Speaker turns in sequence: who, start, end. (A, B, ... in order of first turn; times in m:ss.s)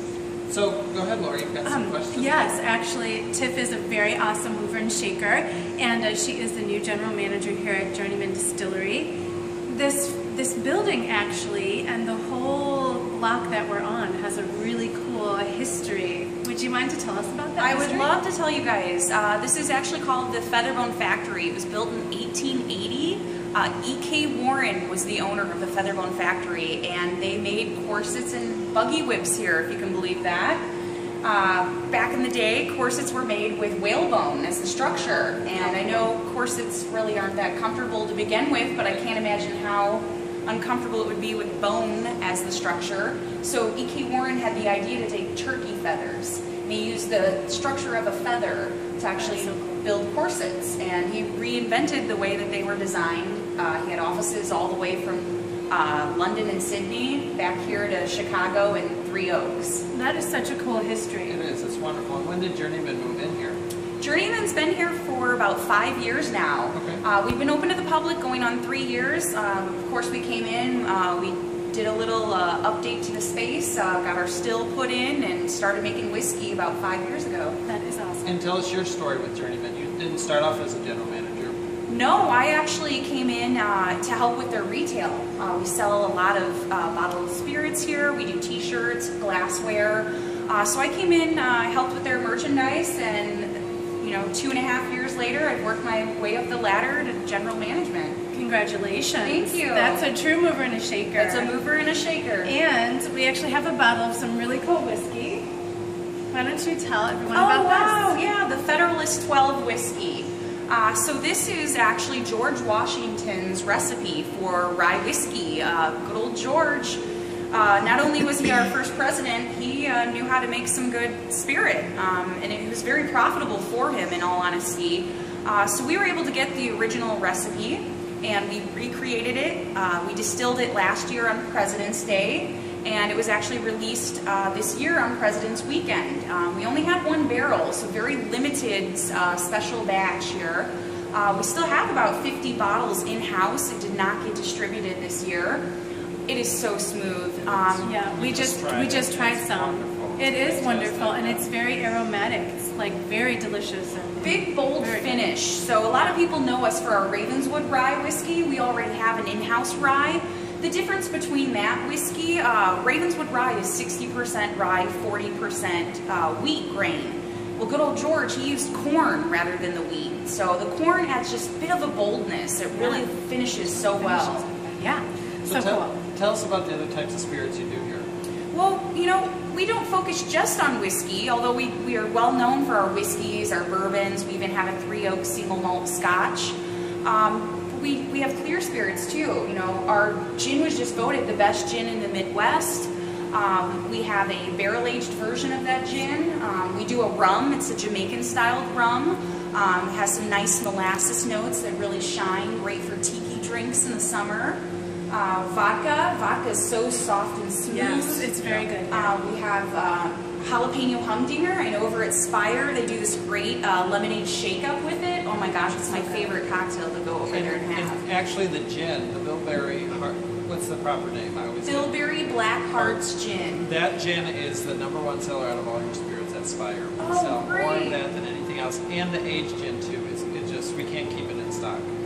0:00.5-0:02.5 A
0:01.6-0:09.1 B
0:09.7-0:18.1 B
0:17.6-0:30.6 C
0:31.2-0:59.8 C
0:49.2-0:49.7 B
0:59.9-1:01.3 B
1:01.3-1:03.6 A
1:04.0-1:17.6 C
1:06.7-1:07.0 A
1:17.6-1:18.4 B
1:18.2-1:21.6 A
1:21.9-1:38.2 C
1:38.3-1:41.5 B
1:39.2-1:40.0 C
1:41.2-1:42.5 C
1:42.4-1:45.5 B
1:46.3-1:48.2 B
1:47.3-1:57.0 C
1:57.5-2:25.6 C
2:26.3-2:28.0 C
2:27.8-2:35.2 B
2:28.1-2:31.4 A
2:34.2-2:54.4 C
2:52.7-2:53.1 B
2:53.6-2:55.9 B
2:55.4-2:58.1 A
2:58.5-3:24.6 C
3:25.1-3:28.3 C
3:27.7-3:29.1 B
3:28.4-3:28.7 A
3:28.9-3:38.0 C
3:35.8-3:36.3 B
3:37.3-3:41.9 A
3:41.6-3:43.6 C
3:42.8-3:43.0 A
3:43.6-3:51.9 A
3:47.0-3:48.0 C